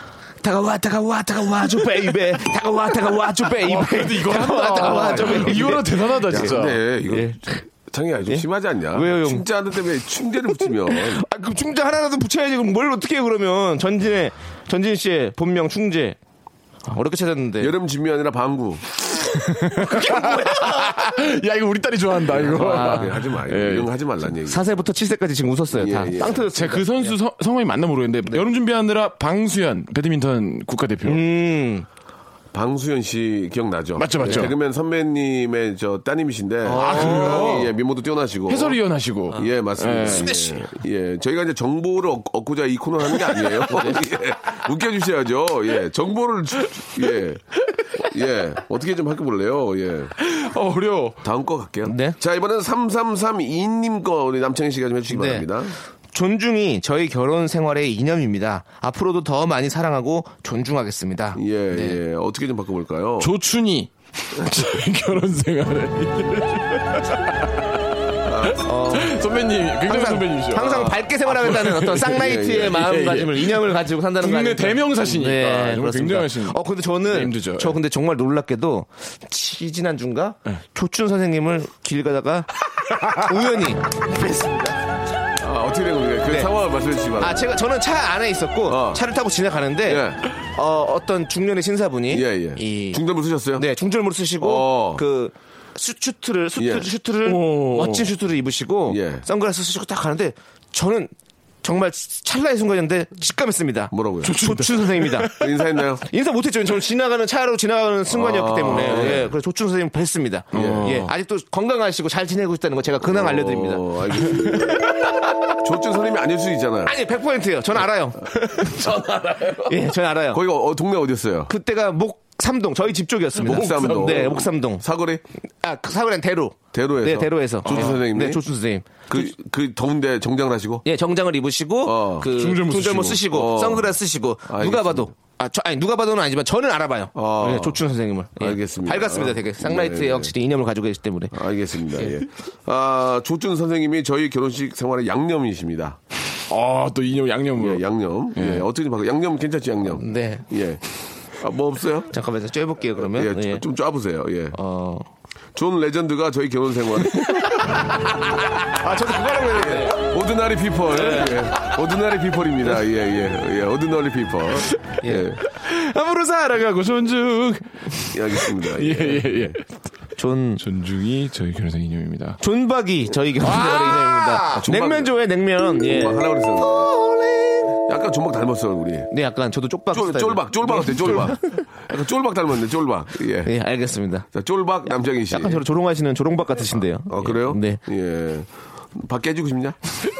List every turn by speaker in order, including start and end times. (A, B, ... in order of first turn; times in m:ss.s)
0:00.4-0:06.0 A
0:03.5-0:06.8 B
0:04.9-0:11.2 C
0:07.1-0:07.6 A
0:08.3-0:09.5 A
0:10.6-0:16.2 A
0:16.9-0:17.7 A
0:17.6-0:19.1 C
0:19.3-0:23.9 B
0:19.9-0:21.0 A
0:22.3-0:24.7 C
0:22.5-0:23.1 A
0:24.5-0:27.1 A
0:25.7-0:26.4 C
0:26.3-0:31.2 B
0:31.0-0:31.9 A
0:32.5-0:38.8 C
0:34.0-0:34.5 B
0:36.6-0:37.7 A
0:36.7-0:37.8 B
0:38.5-0:40.6 B
0:39.3-0:50.1 C
0:43.2-0:43.6 B
0:50.2-0:51.2 B
0:51.2-0:55.8 C
0:51.8-0:52.2 A
0:55.1-0:55.5 A
0:56.1-1:02.0 A
1:01.4-1:03.3 C
1:03.2-1:07.8 B
1:08.3-1:08.6 C
1:08.3-1:17.8 B
1:08.6-1:24.8 A
1:12.1-1:12.8 C
1:25.4-1:27.5 C
1:27.2-1:33.0 A
1:28.7-1:29.0 C
1:29.9-1:30.2 C
1:32.1-1:33.6 C
1:33.5-1:45.4 A
1:34.4-1:35.0 C
1:36.6-1:36.9 C
1:37.2-1:38.1 B
1:38.9-1:39.2 C
1:43.9-1:44.4 C
1:44.2-1:45.4 B
1:45.3-1:46.0 C
1:46.0-1:55.3 A
1:48.1-1:49.3 C
1:50.5-1:51.0 C
1:50.5-1:51.1 B
1:53.0-1:56.9 C
1:56.9-1:59.0 A
1:58.6-1:59.6 B
1:59.0-1:59.4 C
1:59.6-2:00.4 A
2:00.3-2:01.5 C
2:01.5-2:04.8 A
2:03.4-2:05.2 C
2:03.4-2:04.3 B
2:05.6-2:09.3 A
2:06.7-2:08.4 C
2:07.6-2:08.0 B
2:09.1-2:10.9 C
2:10.8-2:21.4 A
2:11.8-2:12.3 C
2:12.2-2:13.3 B
2:13.3-2:13.9 C
2:14.5-2:15.1 C
2:17.1-2:17.8 C
2:18.4-2:20.3 C
2:21.3-2:26.0 C
2:22.0-2:22.2 A
2:26.5-2:27.8 B
2:27.6-2:32.1 C
2:28.4-2:28.6 B
2:29.9-2:30.5 A
2:32.1-2:33.6 A
2:33.0-2:34.6 C
2:34.5-2:35.1 A
2:35.6-2:37.8 C
2:38.1-2:38.4 A
2:38.6-2:40.0 B
2:39.3-2:39.9 A
2:39.6-2:45.4 C
2:41.1-2:41.4 B
2:44.7-2:49.7 B
2:45.0-2:45.3 A
2:48.1-2:49.5 C
2:50.2-2:50.6 A
2:50.6-2:52.4 B
2:52.4-2:57.8 A
2:53.4-2:54.6 B
2:54.5-2:55.2 C
2:55.8-2:56.9 C
2:57.9-2:59.1 C
2:59.1-3:01.6 A
2:59.9-3:03.5 C
3:03.4-3:04.3 A
3:04.3-3:05.7 C
3:05.3-3:07.8 A
3:07.1-3:09.8 C